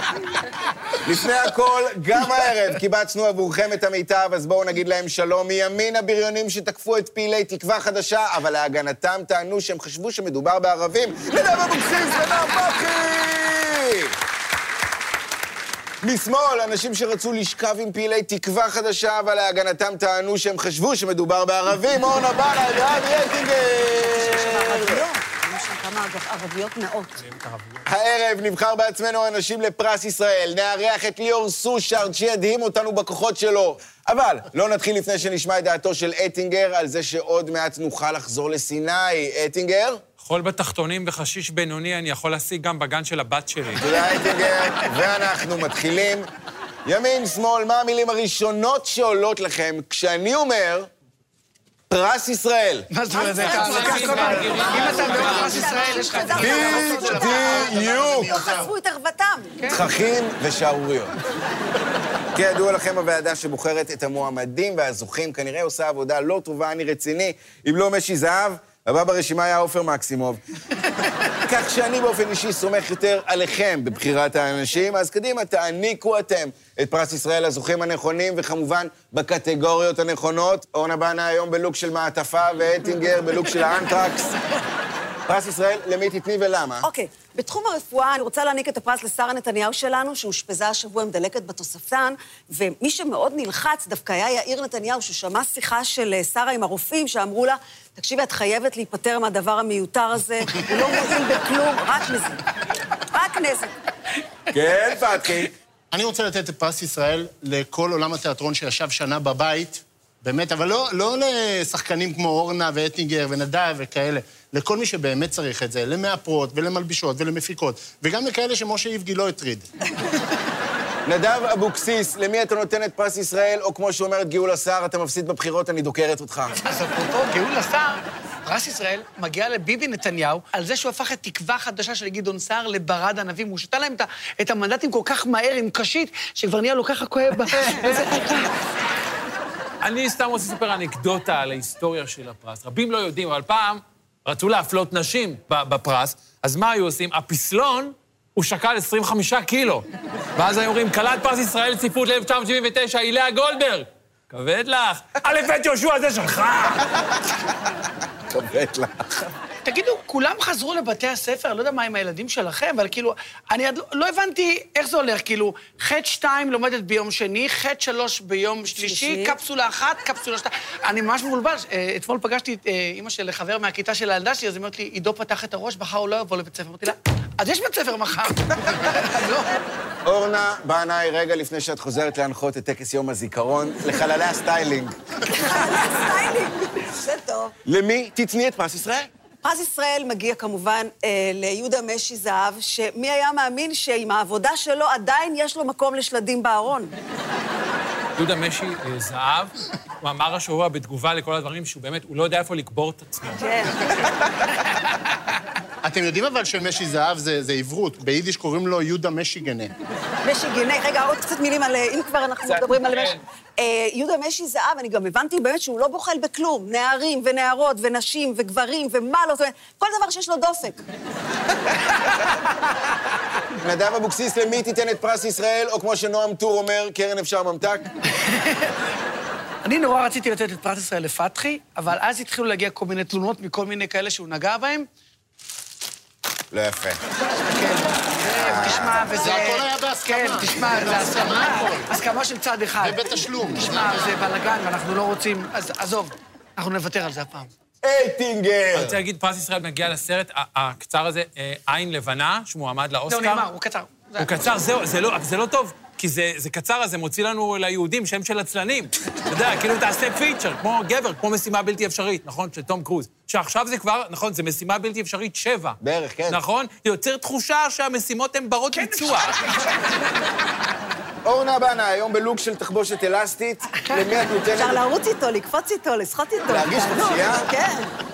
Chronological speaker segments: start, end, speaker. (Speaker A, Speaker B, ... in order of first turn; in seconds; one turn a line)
Speaker A: 1.0-14.2
Speaker A: 16.0-25.1
Speaker B: 24.1-27.2
Speaker C: 27.2-27.8
Speaker A: 27.9-40.0
Speaker C: 40.2-43.9
Speaker A: 43.8-46.3
Speaker A: 46.9-50.9
Speaker A: 51.9-52.9
Speaker D: 52.9-57.2
Speaker C: 53.2-55.8
Speaker B: 53.2-59.6
Speaker A: 56.4-58.5
Speaker E: 56.4-58.7
Speaker A: 59.7-61.1
Speaker A: 62.4-70.4
Speaker A: 71.5-84.4
Speaker A: 85.3-86.9
Speaker B: 86.8-102.4
Speaker B: 103.1-103.7
Speaker A: 104.5-105.5
Speaker E: 105.9-119.7
Speaker A: 121.1-126.6
Speaker D: 126.6-138.5
Speaker C: 139.8-149.9
Speaker C: 150.4-156.9
Speaker A: 158.3-159.3
Speaker D: 159.7-179.5
Speaker B: 168.7-169.4
Speaker A: 180.1-185.0
Speaker B: 185.3-187.6
Speaker A: 187.7-189.1
Speaker B: 189.4-196.9
Speaker C: 198.2-203.7
Speaker B: 203.4-204.1
Speaker E: 205.8-209.7
Speaker B: 210.2-220.8
Speaker C: 212.5-213.2
Speaker A: 223.6-227.9
Speaker D: 228.3-228.7
Speaker D: 229.7-234.9
Speaker A: 236.5-237.0
Speaker D: 237.6-247.5
Speaker A: 238.3-239.3
Speaker E: 239.2-242.0
Speaker E: 242.8-244.1
Speaker A: 247.8-249.0
Speaker C: 248.7-253.5
Speaker D: 253.1-254.4
Speaker C: 254.2-269.4
Speaker A: 265.8-266.4
Speaker D: 268.7-269.7
Speaker A: 271.2-274.8
Speaker B: 274.5-277.9
Speaker A: 276.5-277.5